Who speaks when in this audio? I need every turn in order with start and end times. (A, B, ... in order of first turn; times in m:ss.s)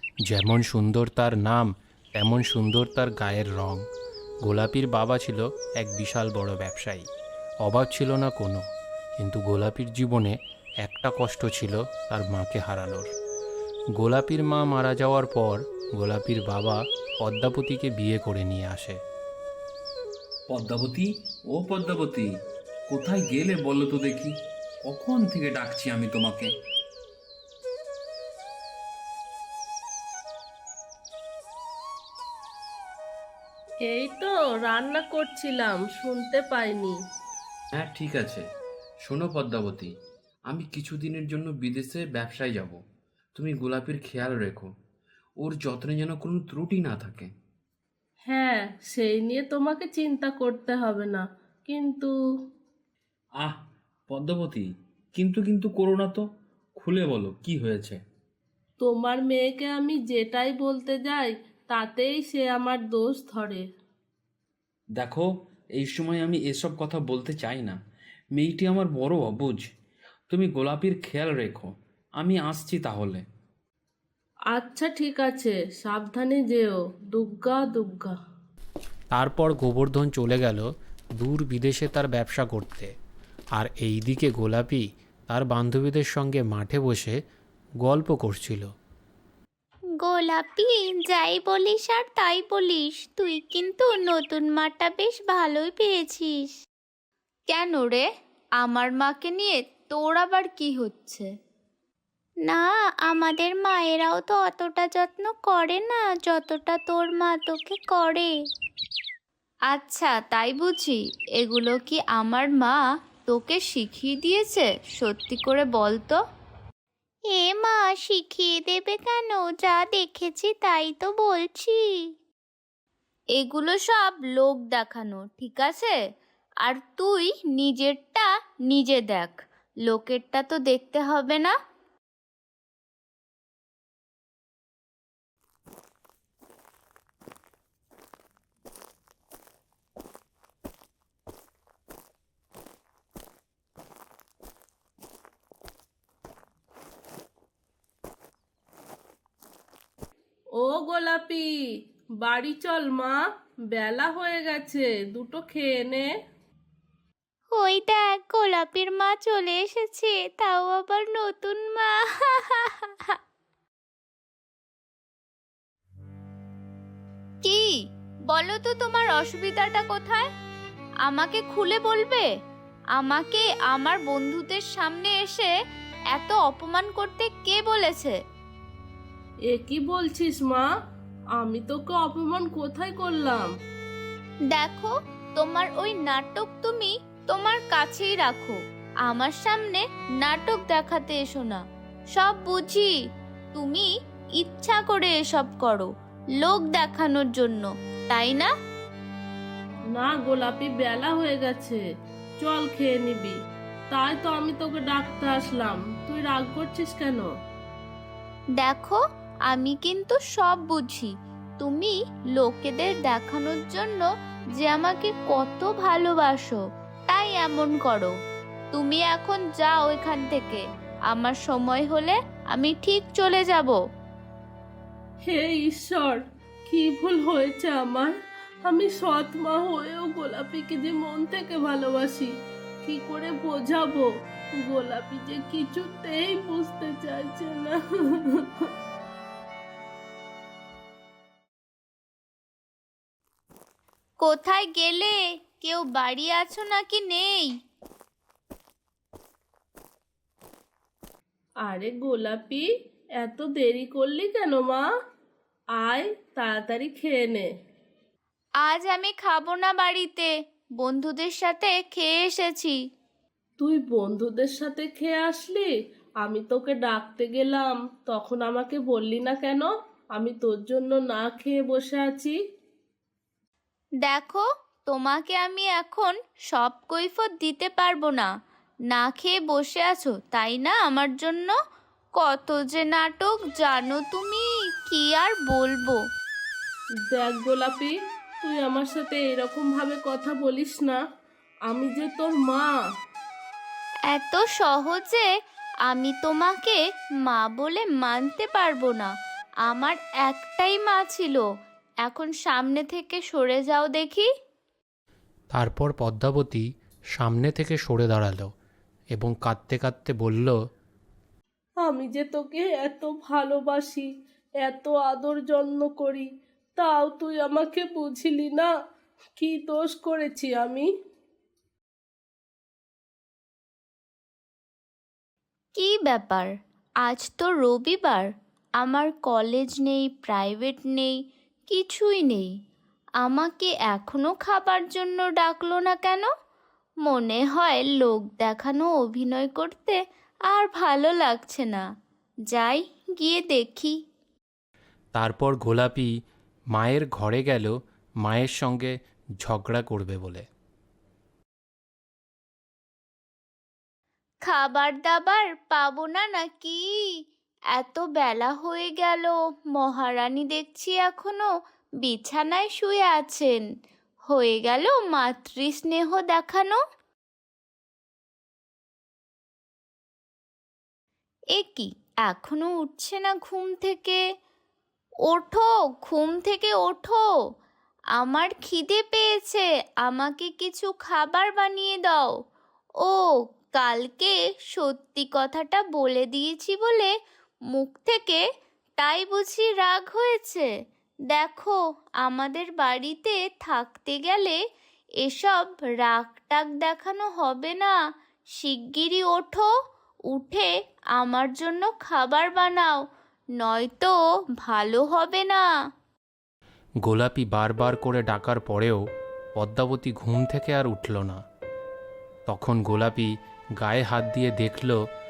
0:00.3-0:03.8 A
0:04.4-0:07.1 A
0:07.6-0:08.6 A
0:09.2-0:13.1 A
0:14.0-0:19.0 A
0:20.5-0:22.3 B
0:22.9-0:24.3 B
0:24.9-0:26.5 B
0:33.8-0:37.0 C
0:37.7-0:38.4 B
0:39.0-0:39.9 B
0:40.5-0:42.8 B
0:43.4-0:44.7 B
0:45.4-0:47.3 B
0:48.3-0:52.1 C
0:53.4-0:56.2 B
0:56.8-0:58.0 B
0:58.8-1:03.6 C
1:05.0-1:07.8 B
1:08.3-1:09.6 B
1:10.3-1:13.2 B
1:14.5-1:18.2 C
1:19.2-1:22.9 A
1:23.6-1:27.2 A
1:27.8-1:28.7 A
1:30.0-1:36.6 D
1:37.5-1:38.0 D
1:38.6-1:41.3 D
1:42.5-1:48.3 D
1:49.7-1:56.2 D
1:57.3-2:02.0 D
2:03.4-2:06.0 D
2:06.6-2:11.5 D
2:30.6-2:31.5 C
2:32.2-2:36.1 C
2:37.5-2:43.2 D
2:47.4-2:47.8 D
2:48.3-2:50.3 D
2:51.0-2:52.3 D
2:53.0-2:55.5 D
2:56.1-2:58.2 D
2:59.5-3:00.7 C
3:01.4-3:03.5 C
3:04.5-3:11.6 D
3:12.1-3:12.9 D
3:13.5-3:13.9 D
3:14.4-3:15.9 D
3:16.4-3:18.5 D
3:19.9-3:21.8 C
3:22.4-3:23.4 C
3:23.9-3:27.3 C
3:28.6-3:34.0 D
3:34.6-3:36.6 D
3:37.1-3:38.1 D
3:38.7-3:43.8 D
3:45.3-3:48.1 C
3:48.6-3:52.3 C
3:52.8-3:58.7 C
4:04.2-4:07.5 D
4:11.6-4:12.7 C
4:13.2-4:14.8 C
4:15.8-4:17.5 C
4:18.6-4:22.8 D
4:23.6-4:25.7 C
4:26.2-4:32.4 C
4:34.0-4:38.3 D
4:38.9-4:41.6 D
4:42.2-4:46.0 D
4:47.1-4:51.0 C
4:51.7-4:52.7 C
4:54.1-4:55.3 D
4:55.9-4:59.1 D
4:59.6-5:01.4 D
5:02.0-5:04.3 D
5:05.5-5:08.5 A
5:09.1-5:10.6 A
5:11.8-5:14.1 C
5:14.6-5:18.7 C
5:19.4-5:20.9 C
5:25.8-5:26.5 D
5:27.0-5:28.3 D
5:28.8-5:31.1 D
5:31.7-5:32.5 D
5:33.2-5:36.3 D
5:37.0-5:40.0 D
5:40.5-5:41.8 D
5:42.5-5:44.0 D
5:45.2-5:46.1 A
5:46.7-5:50.4 A
5:54.5-5:57.1 D
5:57.8-6:01.5 D
6:02.0-6:03.6 D
6:04.3-6:06.8 D
6:11.6-6:14.2 D
6:15.3-6:17.3 D
6:18.2-6:22.3 D
6:23.0-6:27.1 D
6:27.7-6:28.4 D
6:29.0-6:30.7 D
6:31.3-6:34.6 D
6:35.2-6:38.0 D
6:38.6-6:39.7 D
6:40.3-6:43.0 D
6:43.6-6:45.7 D
6:47.0-6:49.0 A
6:49.6-6:51.4 A
6:52.5-6:55.0 A